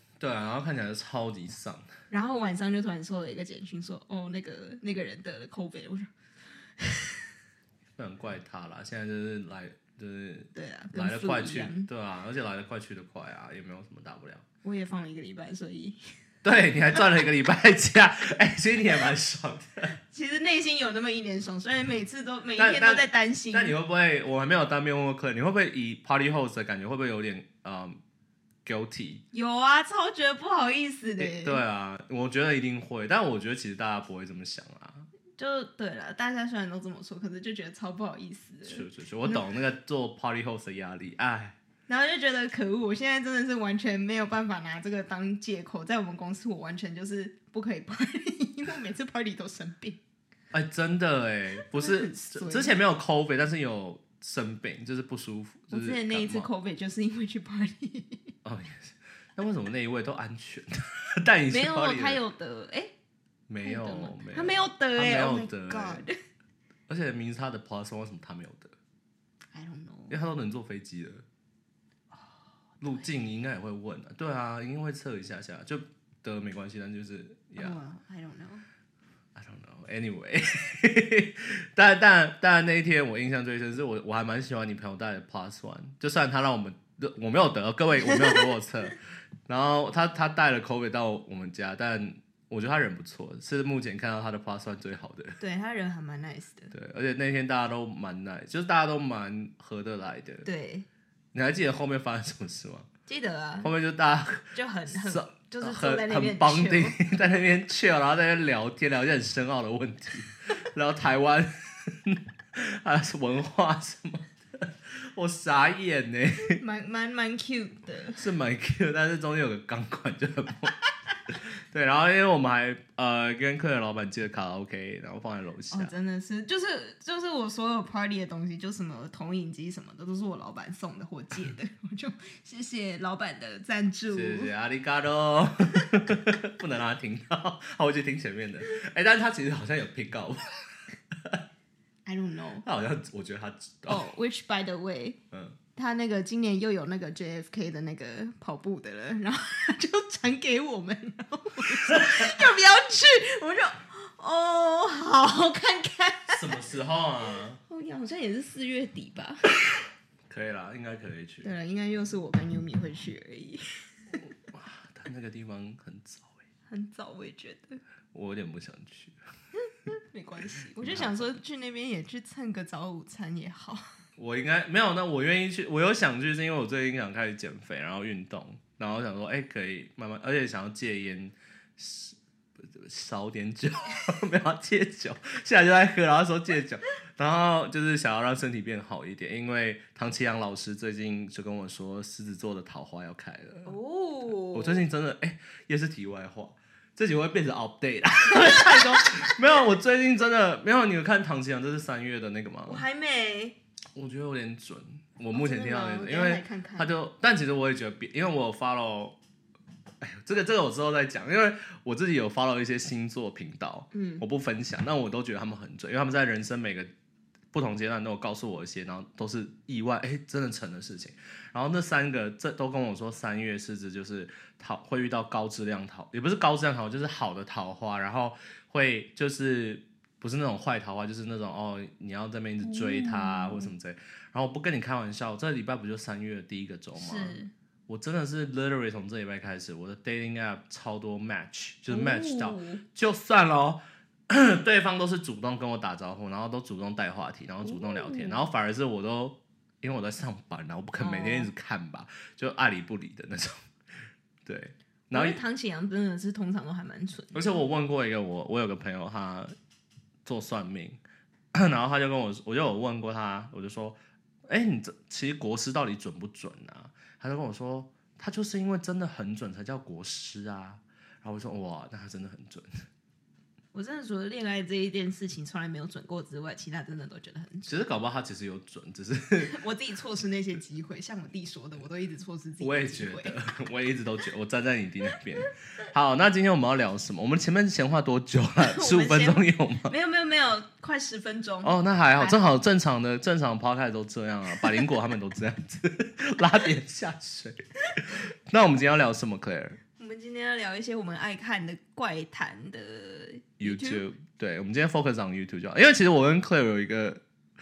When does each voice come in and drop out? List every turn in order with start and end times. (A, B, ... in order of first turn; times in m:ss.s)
0:00.2-0:01.9 A
0:02.1-0:06.1 B
0:06.8-0:07.2 B
0:08.0-0:14.4 A
0:10.5-0:11.9 B
0:14.6-0:16.0 B
0:16.4-0:20.0 A
0:16.9-0:17.2 B
0:20.1-0:23.8 B
0:22.6-0:28.0 A
0:28.6-0:29.2 A
0:29.3-0:31.6 B
0:31.2-0:35.1 A
0:35.4-0:39.4 B
0:38.6-0:41.6 A
0:41.9-0:50.0 B
0:50.5-0:56.5 A
0:51.6-0:52.8 B
0:55.7-0:58.3 B
0:58.4-1:02.2 A
1:01.5-1:02.9 B
1:03.5-1:06.0 A
1:03.6-1:06.2 B
1:06.9-1:08.7 A
1:09.5-1:10.2 B
1:10.1-1:11.2 A
1:12.8-1:17.8 A
1:17.6-1:18.6 B
1:19.3-1:35.4 A
1:28.0-1:28.4 B
1:35.4-1:36.7 B
1:36.7-1:40.5 A
1:40.4-1:40.9 B
1:41.3-1:42.9 A
1:43.1-1:43.7 B
1:43.6-1:56.6 A
1:44.5-1:47.0 B
1:56.4-1:58.2 B
1:58.2-2:00.7 A
2:01.3-2:05.9 A
2:05.7-2:14.5 B
2:14.1-2:21.4 A
2:22.0-2:22.6 B
2:22.6-2:24.0 A
2:23.9-2:25.2 B
2:25.3-2:25.6 A
2:25.7-2:36.6 B
2:31.8-2:32.4 A
2:36.3-2:37.6 A
2:37.6-2:39.5 B
2:40.3-2:41.5 A
2:41.4-2:43.6 B
2:44.2-2:46.4 A
2:46.7-2:47.8 B
2:48.1-2:49.2 A
2:49.9-2:53.9 B
2:50.8-2:51.3 A
2:54.2-3:13.7 A
3:13.6-3:14.8 B
3:14.5-3:22.8 A
3:18.4-3:19.3 B
3:22.6-3:23.6 B
3:24.0-3:29.2 A
3:25.3-3:26.9 B
3:30.0-3:36.9 A
3:33.9-3:34.2 B
3:37.5-4:13.6 A
3:52.6-3:53.7 B
3:56.9-3:57.5 B
4:01.9-4:02.8 B
4:07.6-4:08.5 B
4:11.0-4:11.5 B
4:14.4-4:15.4 A
4:15.1-4:17.6 B
4:17.3-4:19.5 A
4:20.2-4:21.0 A
4:21.5-4:32.8 A
4:33.7-4:37.7 B
4:37.6-4:39.5 A
4:39.4-4:43.4 B
4:42.6-4:49.9 A
4:48.6-4:52.4 B
4:51.6-4:59.8 A
5:00.0-5:04.0 B
5:03.6-5:07.2 A